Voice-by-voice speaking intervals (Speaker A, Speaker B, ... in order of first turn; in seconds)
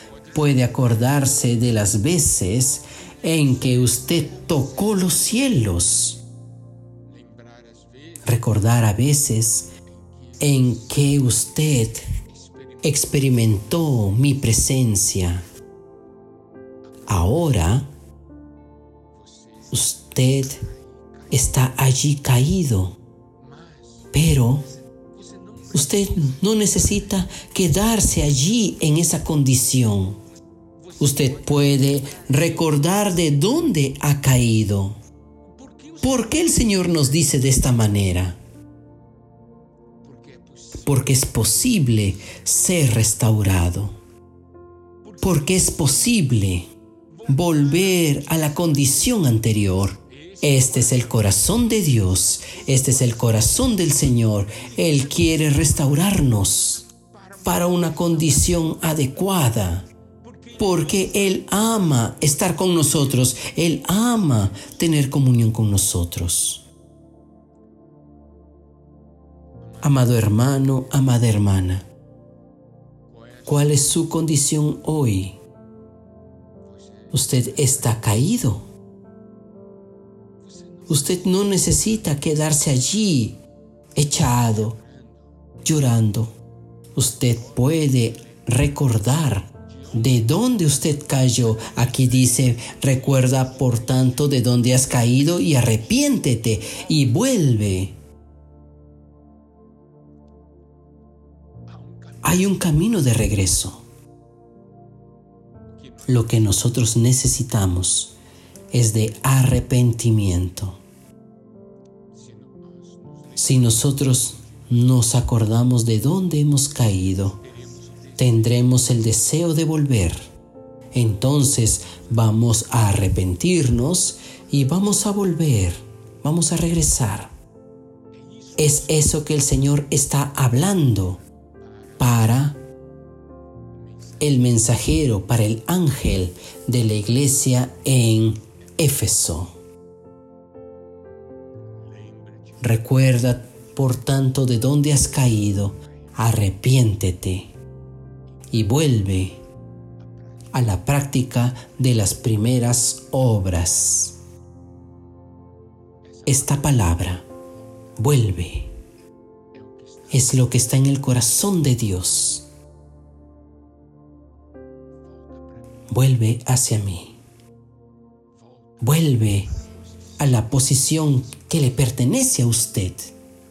Speaker A: 0.3-6.2, 8.2-9.7, 10.4-12.0, 12.8-15.4, 17.1-17.9, 19.7-20.6, 21.3-23.0, 24.1-24.7, 25.7-30.2, 31.0-35.0, 36.0-38.4, 40.8-43.9, 45.2-46.7, 47.2-56.9, 57.4-59.9, 60.6-66.6, 69.8-71.8, 73.4-75.4, 77.1-78.6, 80.9-83.4, 84.0-84.8, 85.6-86.3, 86.9-97.9, 102.2-103.8, 106.0-108.1, 108.7-110.8, 113.3-117.4, 118.2-120.3, 120.9-127.3, 128.6-131.2, 132.0-132.6, 134.2-139.5, 142.6-147.5, 148.5-149.4, 150.5-154.2, 156.2-157.3, 158.0-158.7, 160.1-162.4, 165.9-167.2, 168.8-169.5, 170.2-173.1